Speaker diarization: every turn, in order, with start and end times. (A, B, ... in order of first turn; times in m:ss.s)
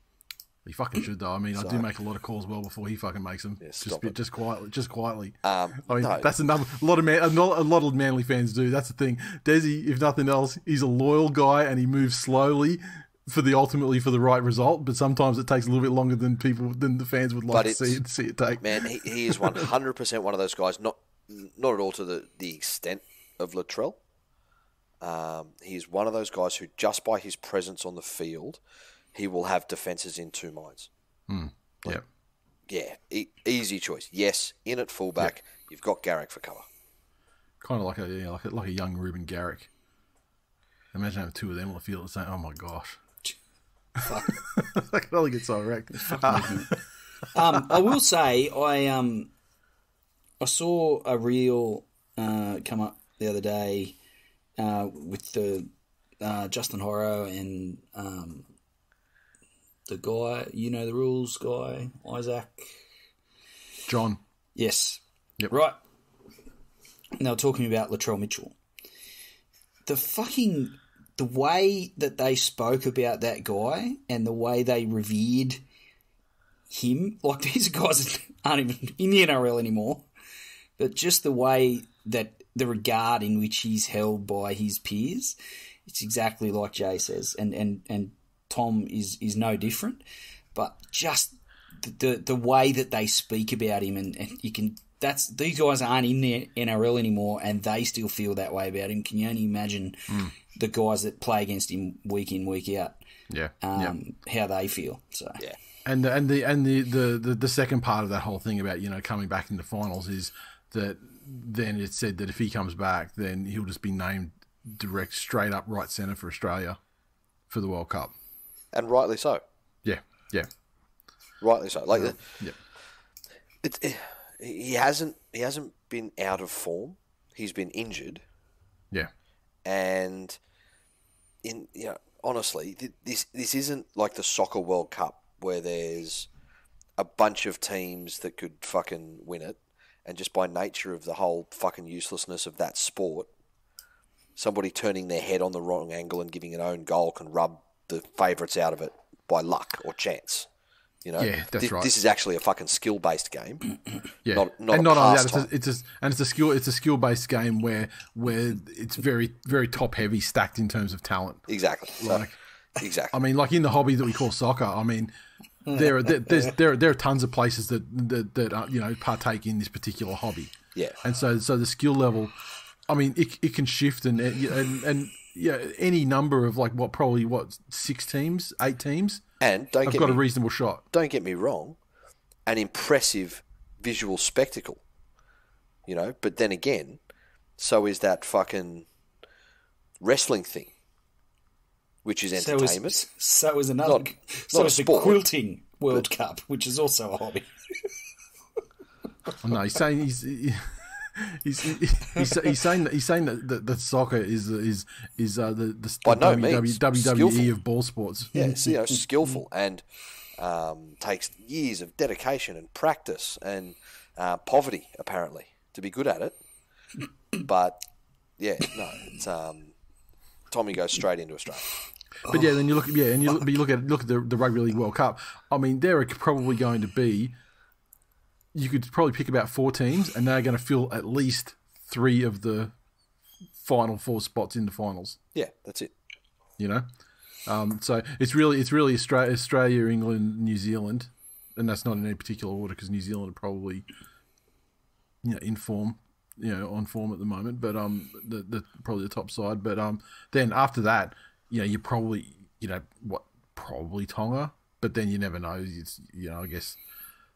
0:00.6-0:19.7 A
0:01.5-0:01.8 B
0:03.6-0:04.1 B
0:05.4-0:06.3 B
0:17.5-0:18.0 B
0:18.6-0:24.0 B
0:25.0-0:28.6 B
0:29.1-0:30.9 B
0:31.3-0:32.0 A
0:32.7-0:36.6 B
0:37.6-0:39.7 A
0:40.9-0:43.0 A
0:44.0-0:44.4 C
0:44.3-0:46.8 A
0:46.0-0:46.7 C
0:47.3-0:49.3 C
0:47.5-0:47.8 A
0:50.4-0:54.0 C
0:54.6-0:58.5 C
0:59.9-1:02.8 C
1:03.9-1:04.2 A
1:04.5-1:05.8 C
1:07.2-1:08.6 C
1:09.8-1:15.6 C
1:16.7-1:20.1 C
1:20.8-1:30.0 C
1:30.5-1:43.0 C
1:40.1-1:40.3 A
1:43.3-1:44.0 A
1:43.6-1:45.4 C
1:45.8-1:56.8 A
1:57.5-1:58.1 A
1:58.7-1:59.4 B
1:59.8-2:00.5 A
2:01.4-2:02.4 B
2:01.9-2:02.6 A
2:03.6-2:08.2 B
2:09.6-2:10.4 B
2:11.4-2:16.3 B
2:17.0-2:23.3 B
2:24.4-2:30.5 B
2:31.0-2:33.7 B
2:31.2-2:31.9 A
2:34.2-2:41.4 A
2:34.3-2:35.5 B
2:41.5-2:42.2 B
2:42.0-2:42.4 A
2:42.8-2:43.1 B
2:43.1-2:45.1 A
2:45.6-2:46.5 C
2:45.7-2:52.3 A
2:52.9-2:59.2 A
2:59.4-3:00.2 B
2:59.8-3:00.8 A
3:00.9-3:01.8 B
3:02.5-3:04.8 B
3:05.9-3:07.0 B
3:07.6-3:08.9 B
3:10.0-3:10.7 B
3:12.0-3:13.0 B
3:12.3-3:17.8 C
3:13.8-3:15.2 B
3:19.4-3:28.3 A
3:26.0-3:27.5 B
3:28.3-3:29.8 B
3:28.3-3:28.9 C
3:30.4-3:36.4 B
3:37.4-3:37.8 B
3:38.4-3:39.7 B
3:40.5-3:41.7 B
3:42.3-3:47.4 A
3:48.5-3:52.7 A
3:53.6-3:55.2 A
3:55.3-3:55.9 B
3:56.6-3:56.8 A
3:57.4-4:03.8 A
4:05.2-4:16.8 A